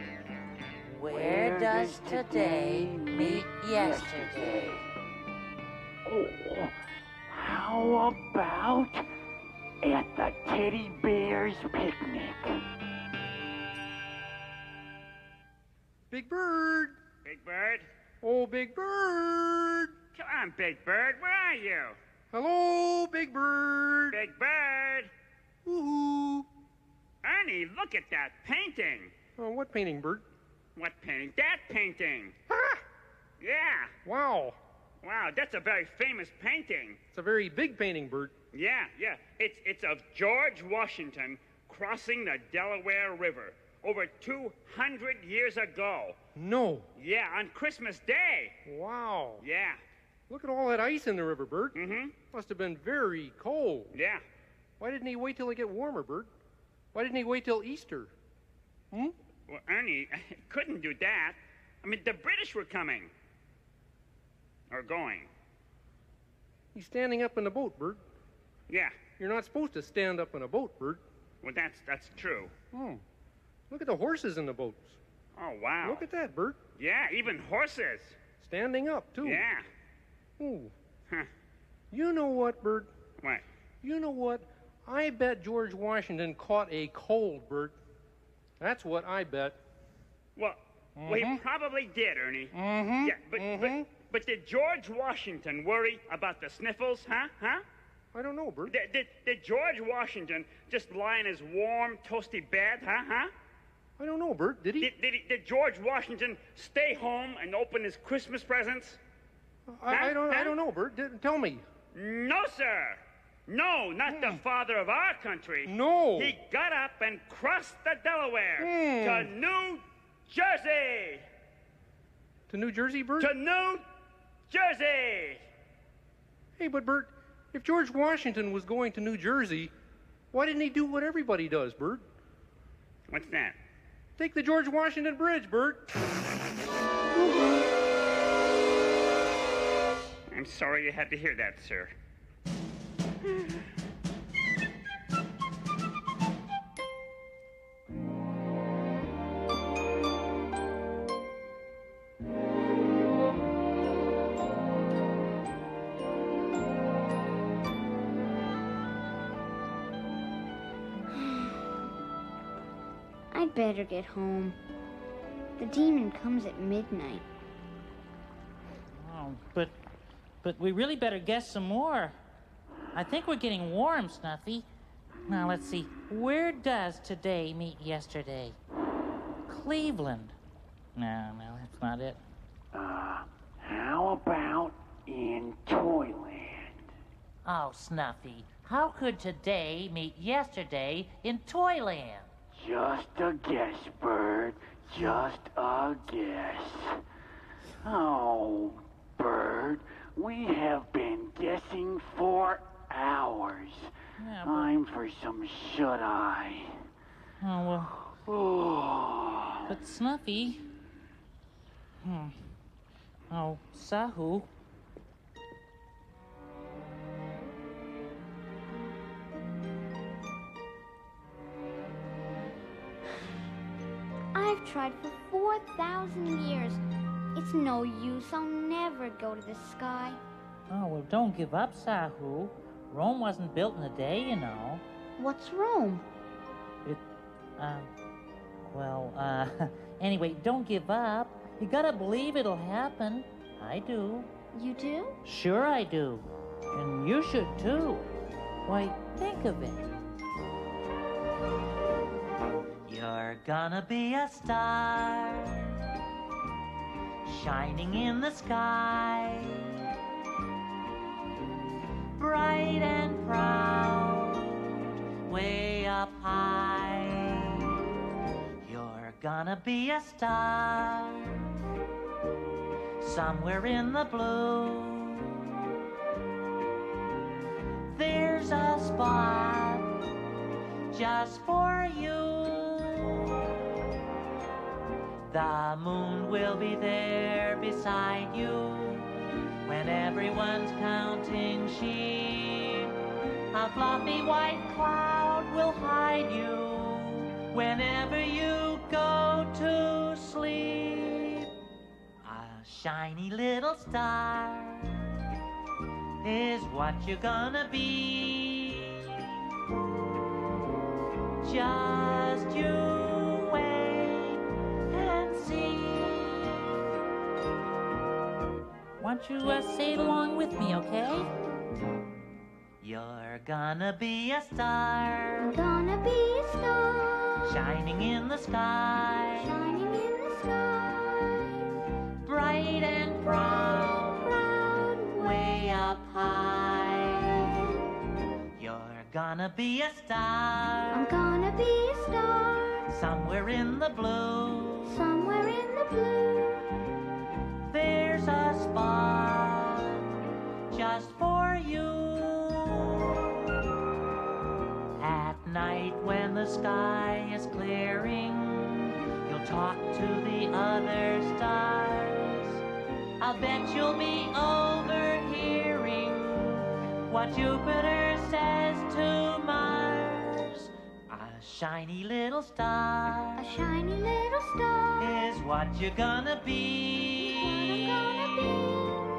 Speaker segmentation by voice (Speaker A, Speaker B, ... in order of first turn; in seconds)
Speaker A: 0.8-4.7, 169.0-169.7, 170.4-172.2, 172.9-174.7, 175.3-178.6, 179.5-180.3, 180.9-182.2, 187.4-192.3, 204.2-204.7, 207.4-207.9, 209.7-210.6, 212.0-212.4, 213.3-214.5, 230.7-234.8, 237.6-237.9, 238.7-244.3, 245.2-248.1, 248.7-250.0, 252.8-255.7, 257.2-259.7, 262.2-267.7, 268.6-271.5, 273.0-275.4, 277.9-279.9, 280.9-283.4, 285.3-289.1, 289.6-292.9, 293.5-301.4, 302.2-305.1, 306.2-309.1, 311.4-316.6, 319.0-321.3, 322.8-325.5, 327.4-329.5, 332.2-334.3, 335.2-337.3, 338.6-341.1, 342.9-344.9, 347.7-350.0, 350.7-353.3, 355.0-362.6, 363.2-373.4, 375.0-378.6
Speaker B: 1.1-4.8, 6.0-6.7, 7.3-9.0, 9.8-12.6, 182.7-186.8, 192.5-197.0, 197.8-203.9, 204.4-206.8, 208.2-209.6
Speaker C: 16.1-16.9, 18.2-19.9, 22.3-24.2, 25.6-26.4, 29.4-30.2, 32.5-32.8, 34.0-34.6, 37.1-38.3, 46.4-46.9, 48.6-49.4, 50.3-51.8, 52.3-54.0, 54.8-56.3, 56.9-58.1, 66.7-68.0, 69.2-71.0, 72.7-73.0, 73.7-75.0, 75.8-76.6, 78.4-79.5, 80.4-80.7, 81.9-82.9, 83.8-87.8, 88.6-89.6, 91.0-91.4, 92.5-93.9, 98.1-98.8, 104.0-104.9, 109.7-111.6, 114.1-114.4, 115.7-116.4, 118.6-119.3, 122.5-123.3, 126.6-129.7, 130.3-132.0, 134.2-135.8
Speaker D: 17.2-17.9, 20.1-22.0, 24.1-25.1, 27.2-29.1, 30.8-32.3, 33.4-33.9, 35.0-37.0, 38.5-46.1, 47.0-48.5, 49.4-49.8, 51.7-52.1, 53.9-54.2, 59.5-63.1, 64.7-65.3, 68.7-69.0, 71.4-72.5, 75.3-76.0, 76.8-78.2, 79.2-79.6, 90.3-92.5, 93.0-97.6, 98.7-103.3, 104.8-109.0, 109.9-110.5, 111.9-121.2, 123.2-123.8, 124.5-125.4, 133.1-133.6, 140.3-141.9
Speaker E: 161.1-161.5, 163.3-164.6, 165.6-167.2, 224.3-226.8, 227.3-230.2, 235.2-236.0, 244.5-245.2, 325.4-327.6, 329.4-331.5, 334.2-335.6, 340.9-342.9, 344.9-346.5, 373.4-375.1